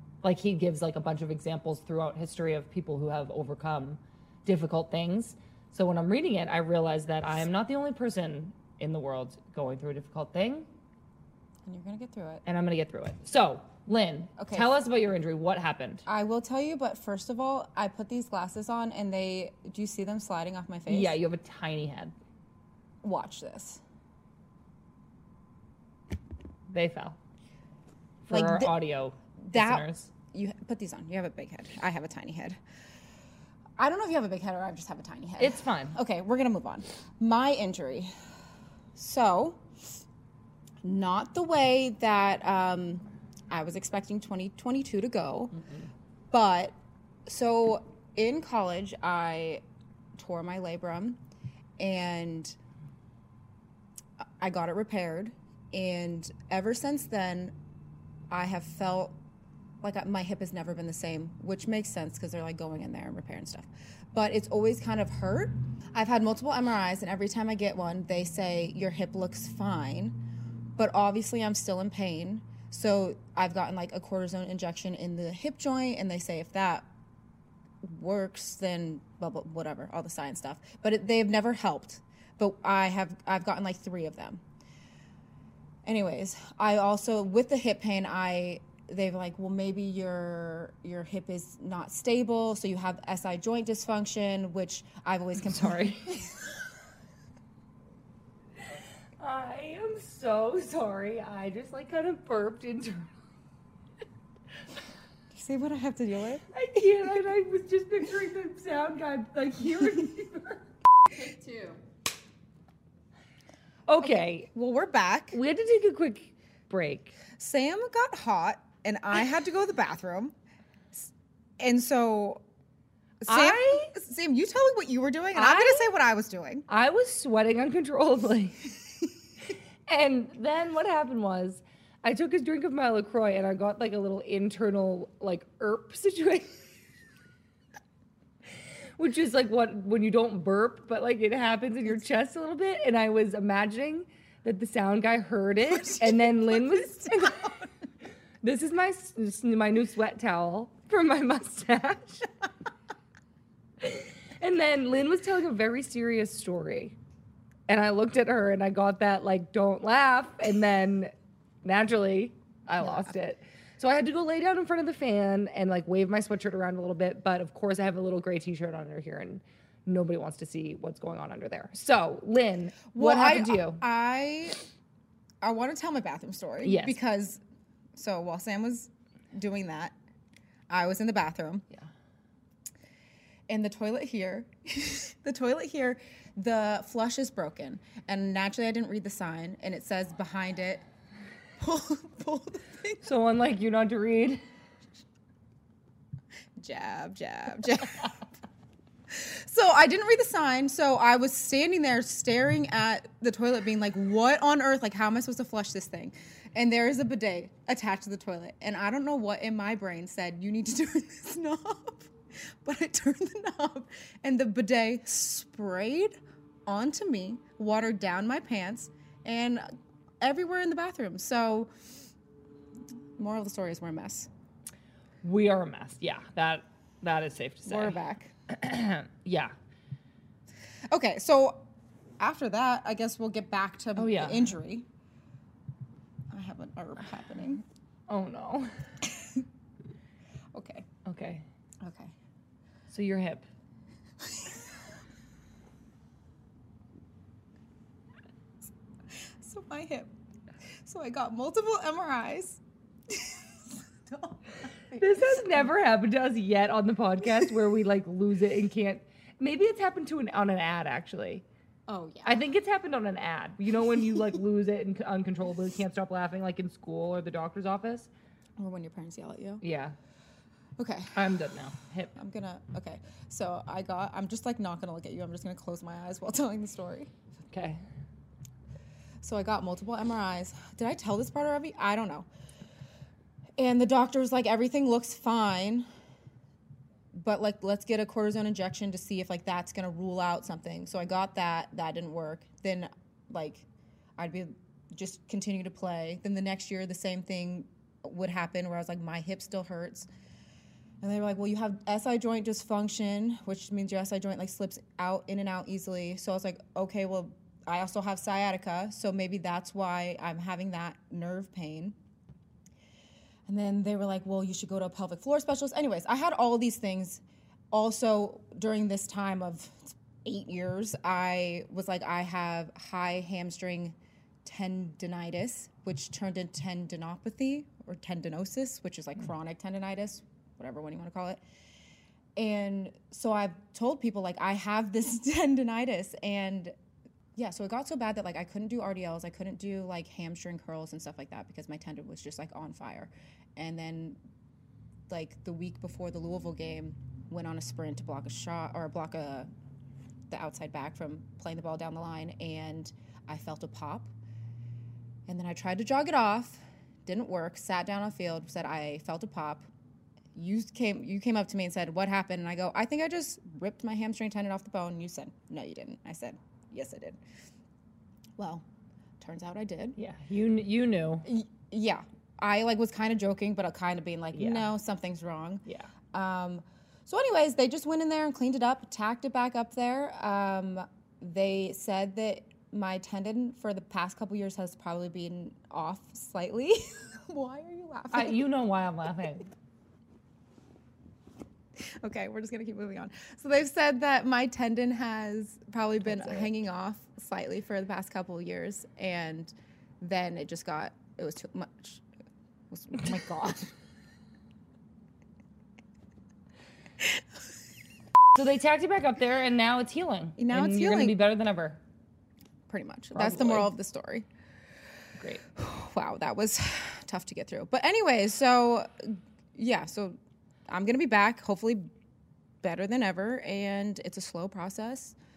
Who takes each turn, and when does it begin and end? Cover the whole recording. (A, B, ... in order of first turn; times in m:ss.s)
0:00.2-0:10.7 A
0:11.6-0:12.4 B
0:12.4-0:16.0 A
0:14.4-0:14.8 B
0:16.0-0:21.2 B
0:20.9-0:22.1 A
0:23.0-0:23.8 B
0:26.7-0:27.2 A
0:28.2-0:30.1 A
0:28.3-0:28.7 B
0:29.4-0:32.6 B
0:33.8-0:38.1 B
0:35.4-0:36.0 A
0:38.9-0:39.6 B
0:40.8-0:45.6 B
0:46.3-0:46.7 B
0:47.2-0:49.6 B
0:50.2-0:51.2 B
0:51.8-0:52.6 B
0:54.2-0:57.5 B
0:58.3-0:59.2 B
0:59.8-1:10.2 B
1:10.8-1:16.8 B
1:17.8-1:24.4 B
1:25.8-1:36.3 B
1:35.4-1:36.2 A
1:39.2-1:43.1 A
1:45.3-1:46.4 B
1:46.5-1:50.6 A
1:51.2-1:51.8 B
1:53.9-1:54.5 A
1:54.0-1:55.4 B
1:55.3-1:57.2 A
1:57.4-2:00.3 B
2:01.6-2:02.4 B
2:03.2-2:06.7 B
2:03.3-2:03.9 A
2:05.3-2:05.9 A
2:06.7-2:08.7 A
2:09.9-2:16.6 A
2:19.0-2:27.5 A
2:25.8-2:27.6 B
2:28.4-2:32.3 A
2:33.8-2:37.0 A
2:37.7-2:41.1 A
2:41.6-2:53.8 A
2:52.9-2:54.6 B
2:55.4-2:57.4 B
2:56.6-2:57.0 A
2:57.9-2:59.9 B
3:00.7-3:01.6 B
3:03.5-3:10.8 B
3:11.6-3:13.1 B
3:13.0-3:14.4 A
3:16.6-3:18.2 B
3:19.1-3:32.1 B
3:32.6-3:36.1 B
3:36.7-3:39.6 B
3:40.2-3:41.7 B
3:43.2-3:44.3 B
3:45.2-3:48.0 A
3:47.6-3:48.3 B
3:48.5-3:49.5 A
3:50.9-3:51.6 B
3:52.2-3:54.9 B
3:54.0-3:54.6 A
3:56.3-3:57.6 B
3:58.1-3:58.7 A
4:00.5-4:00.9 B
4:01.0-4:01.4 A
4:01.8-4:02.1 B
4:02.9-4:03.4 A
4:09.4-4:10.1 B
4:10.8-4:15.6 B
4:15.0-4:21.4 A
4:21.9-4:22.4 B
4:22.2-4:28.1 A
4:28.6-4:29.6 B
4:29.6-4:30.0 A
4:30.8-4:31.2 B
4:31.1-4:32.1 A
4:32.1-4:37.1 B
4:37.4-4:37.8 A
4:39.2-4:42.3 B
4:43.6-4:45.8 B
4:47.1-4:53.6 B
4:54.2-5:00.1 B
5:01.0-5:12.0 B
5:13.5-5:31.4 B
5:32.4-5:36.7 B
5:37.4-5:44.2 B
5:45.1-5:49.5 B
5:50.3-5:54.1 B
5:55.3-5:59.7 B
6:00.3-6:07.2 B
6:08.4-6:08.6 B
6:09.2-6:10.0 B
6:10.0-6:11.2 A
6:11.2-6:28.4 B
6:14.3-6:14.7 A
6:28.1-6:29.5 A
6:31.8-6:42.0 B
6:36.1-6:36.5 A
6:42.7-6:43.7 B
6:48.3-6:51.8 A
6:50.4-6:51.2 B
6:52.7-6:54.2 B
6:53.1-6:53.7 A
6:55.5-7:00.2 B
7:00.7-7:01.9 B
7:02.6-7:05.2 B